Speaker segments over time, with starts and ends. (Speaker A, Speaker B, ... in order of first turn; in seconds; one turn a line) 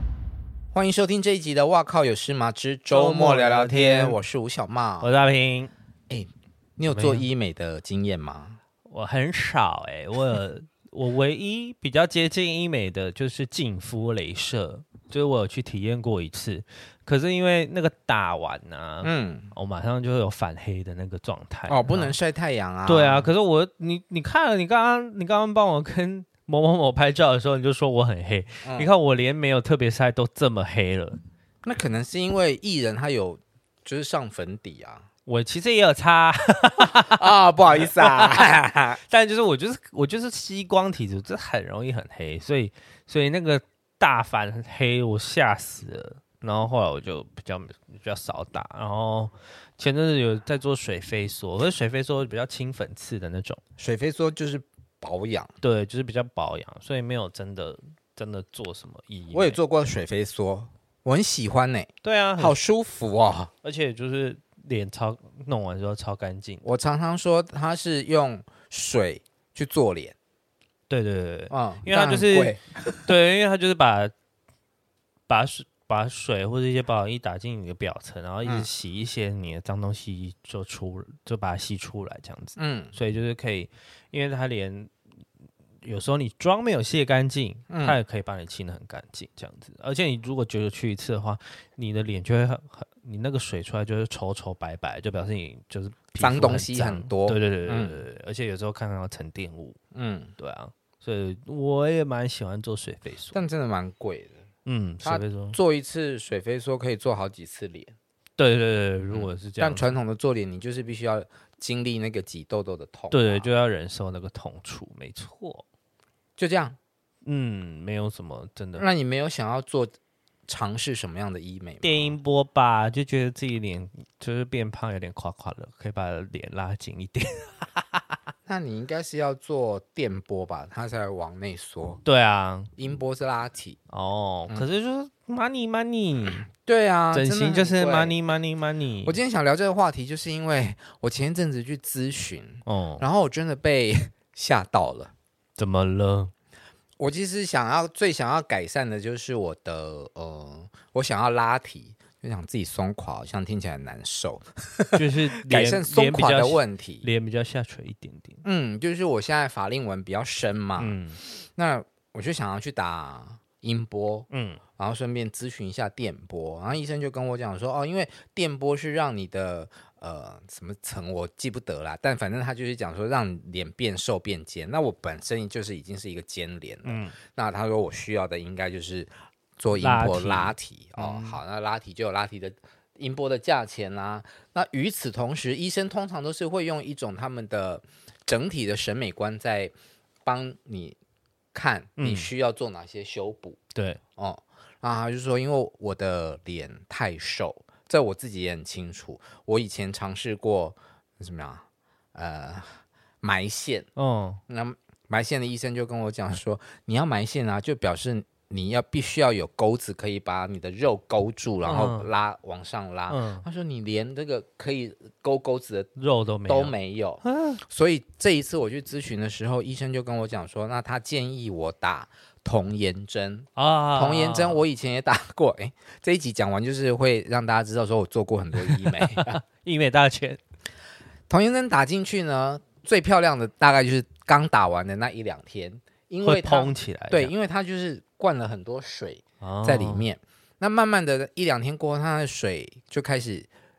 Speaker A: 0.7-5.1
Speaker B: 2.9-4.2
Speaker B: 5.0-5.7
Speaker A: 6.1-8.6
Speaker B: 6.9-7.2
Speaker B: 8.9-22.1
Speaker A: 19.0-19.5
Speaker A: 21.7-23.3
Speaker B: 22.9-31.2
Speaker A: 28.6-28.9
Speaker A: 31.6-35.0
Speaker B: 35.2-37.2
Speaker A: 36.8-39.0
Speaker B: 37.8-38.4
Speaker B: 39.1-53.6
Speaker A: 53.8-55.5
Speaker B: 55.6-59.6
Speaker A: 59.3-63.5
Speaker B: 62.0-62.6
Speaker B: 63.6-66.6
Speaker A: 66.6-70.1
Speaker B: 70.9-74.1
Speaker A: 71.5-73.1
Speaker B: 75.3-84.9
Speaker A: 82.6-83.0
Speaker B: 85.8-99.8
Speaker A: 87.7-88.0
Speaker A: 96.2-98.0
Speaker A: 99.9-100.3
Speaker B: 100.4-103.4
Speaker A: 103.3-104.4
Speaker B: 104.7-105.6
Speaker A: 105.0-107.9
Speaker B: 108.4-109.9
Speaker A: 109.1-113.5
Speaker B: 113.1-115.6
Speaker A: 116.4-116.8
Speaker B: 117.2-118.8
Speaker A: 118.8-119.9
Speaker A: 120.5-122.2
Speaker B: 121.8-128.2
Speaker A: 128.4-132.0
Speaker B: 132.0-132.7
Speaker A: 132.8-133.8
Speaker B: 133.9-136.4
Speaker A: 136.4-138.2
Speaker B: 137.1-139.2
Speaker A: 139.0-145.1
Speaker B: 142.7-143.0
Speaker B: 145.6-146.3
Speaker A: 147.0-157.1
Speaker B: 154.9-158.4
Speaker A: 158.4-189.7
Speaker B: 160.8-161.2
Speaker B: 164.3-164.6
Speaker B: 176.8-177.2
Speaker B: 179.7-181.4
Speaker A: 190.2-191.0
Speaker A: 191.5-193.6
Speaker B: 192.0-192.3
Speaker B: 193.7-194.0
Speaker A: 194.2-203.9
Speaker B: 203.9-204.4
Speaker A: 204.5-215.9
Speaker B: 211.6-212.1
Speaker B: 213.1-213.4
Speaker B: 215.9-217.6
Speaker A: 216.5-229.4
Speaker B: 223.5-224.6
Speaker B: 228.7-230.4
Speaker A: 231.3-243.5
Speaker B: 236.2-237.3
Speaker B: 239.4-240.1